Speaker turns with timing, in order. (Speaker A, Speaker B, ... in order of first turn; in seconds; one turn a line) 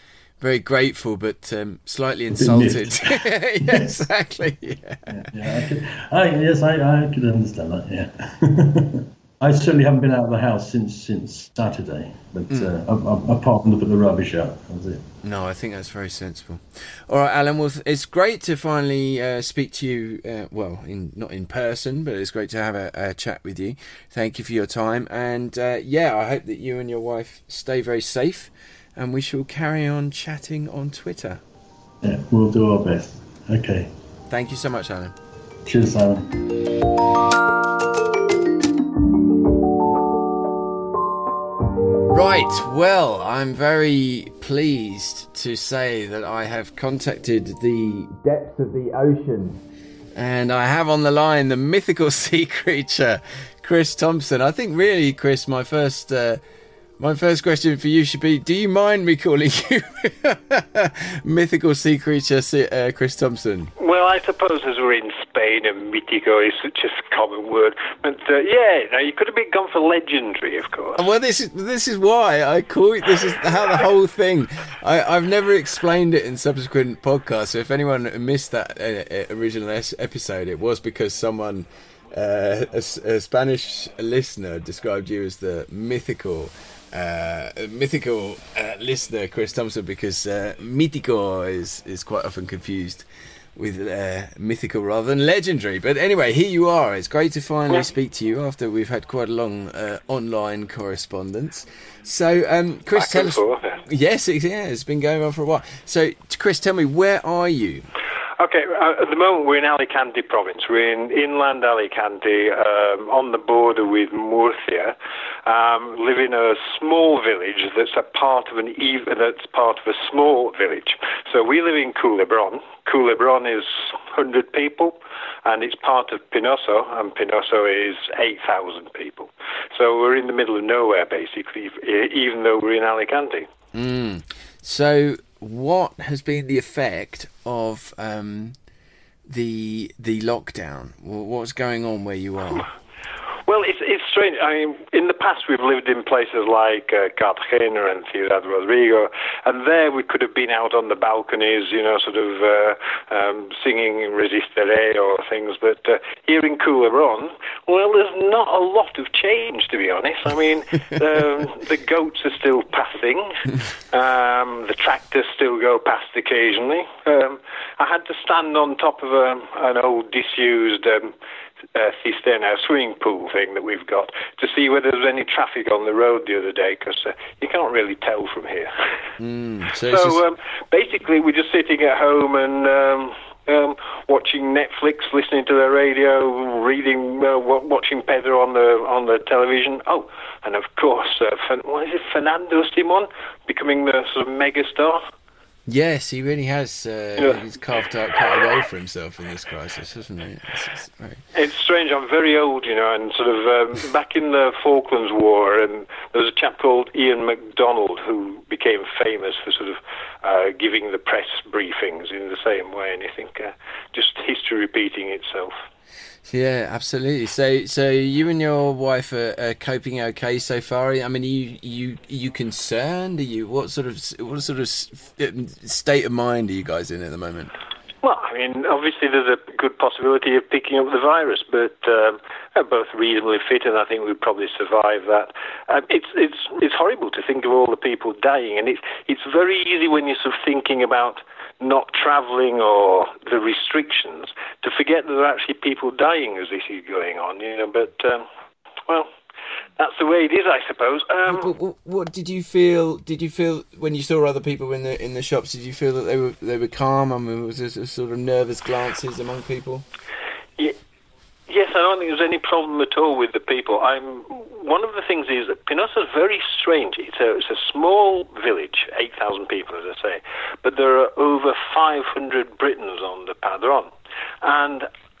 Speaker A: 0.4-5.5
Speaker B: 2.3-3.9
Speaker B: 5.1-15.1
Speaker A: 15.2-31.4
Speaker B: 32.0-33.9
Speaker A: 34.3-35.1
Speaker B: 35.6-36.3
Speaker A: 42.1-49.6
Speaker A: 50.1-56.4
Speaker A: 57.0-63.7
Speaker C: 63.8-71.0
Speaker A: 71.0-107.9
Speaker C: 102.9-103.8
Speaker C: 108.4-133.5
Speaker A: 133.7-138.6
Speaker A: 139.3-142.7
Speaker C: 143.4-171.1
Speaker C: 171.7-178.7
Speaker A: 179.2-180.2
Speaker C: 179.8-195.0
Speaker A: 195.7-201.2
Speaker C: 201.3-215.6
Speaker A: 216.3-227.5
Speaker C: 228.0-248.2
Speaker C: 249.8-251.5
Speaker A: 251.2-259.8
Speaker C: 261.5-273.9
Speaker C: 274.4-274.9